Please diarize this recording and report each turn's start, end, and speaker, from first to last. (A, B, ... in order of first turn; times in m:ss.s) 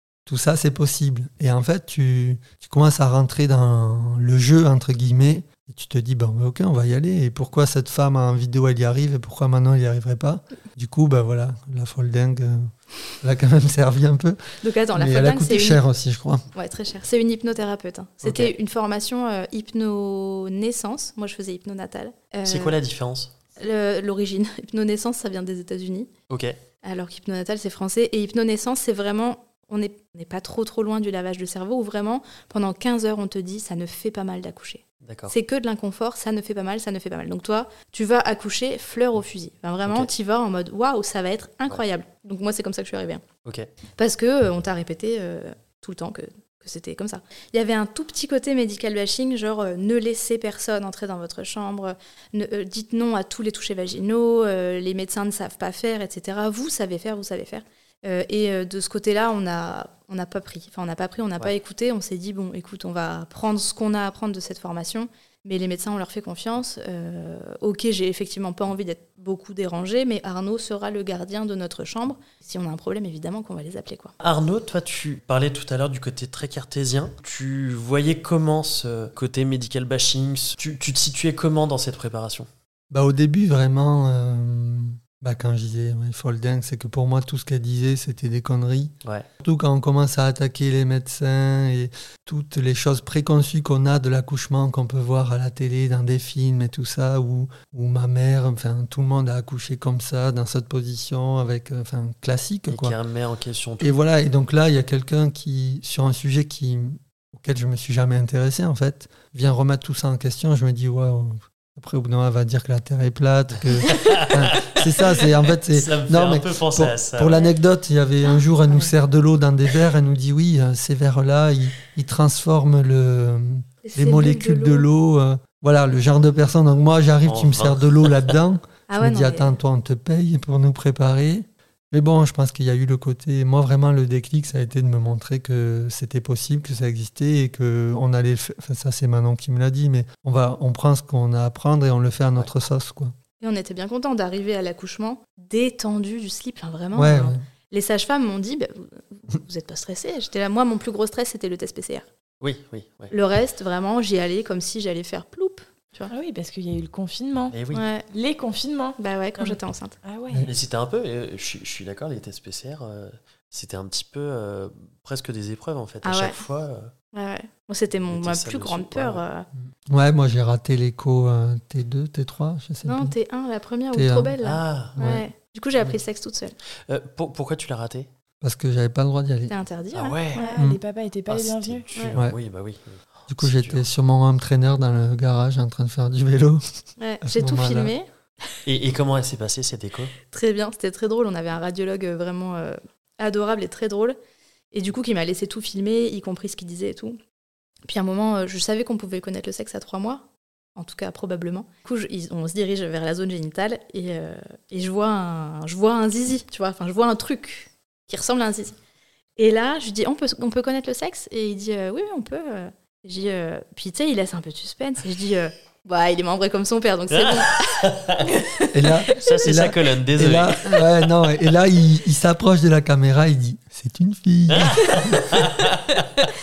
0:00.3-0:12.7 A
0:13.2-0:16.5 A
0:14.6-0:15.8 B
0:16.6-0:22.8 B
0:18.2-0:18.5 C
0:22.4-0:23.4 C
0:23.6-0:26.1 B
0:26.3-0:26.6 C
0:26.8-0:43.2 B
0:35.0-0:35.4 C
0:44.0-1:14.1 B
1:14.2-1:22.5 C
1:22.9-1:43.0 A
1:42.7-1:44.0 C
1:43.8-2:23.1 A
1:53.9-1:54.6 C
1:55.2-1:57.4 C
2:03.8-2:04.9 B
2:07.2-2:08.3 C
2:08.9-2:09.6 B
2:23.4-2:32.1 B
2:26.9-2:27.4 A
2:32.4-2:33.1 C
2:33.1-2:36.1 B
2:36.1-2:37.6 D
2:37.5-2:37.8 C
2:37.7-2:38.1 B
2:38.1-2:40.5 D
2:39.0-2:40.0 B
2:40.5-2:46.9 C
2:46.0-2:46.4 B
2:47.1-2:49.5 B
2:48.1-2:49.3 C
2:49.6-2:53.2 A
2:52.8-2:56.6 B
2:53.9-2:54.4 A
2:54.4-2:55.0 C
2:55.0-2:55.3 A
2:55.8-2:56.0 C
2:56.9-2:58.1 C
2:58.4-2:59.6 A
2:59.5-3:00.6 B
2:59.9-3:00.5 C
3:00.3-3:01.9 D
3:01.3-3:03.9 C
3:03.3-3:06.6 A
3:07.0-3:08.1 B
3:07.2-3:07.9 A
3:08.7-3:10.2 C
3:10.3-3:14.2 B
3:14.7-3:17.2 B
3:17.9-3:20.2 B
3:20.8-3:28.8 B
3:29.4-3:39.2 B
3:37.2-3:38.4 C
3:38.7-3:45.4 A
3:39.2-3:40.9 C
3:44.5-3:46.0 C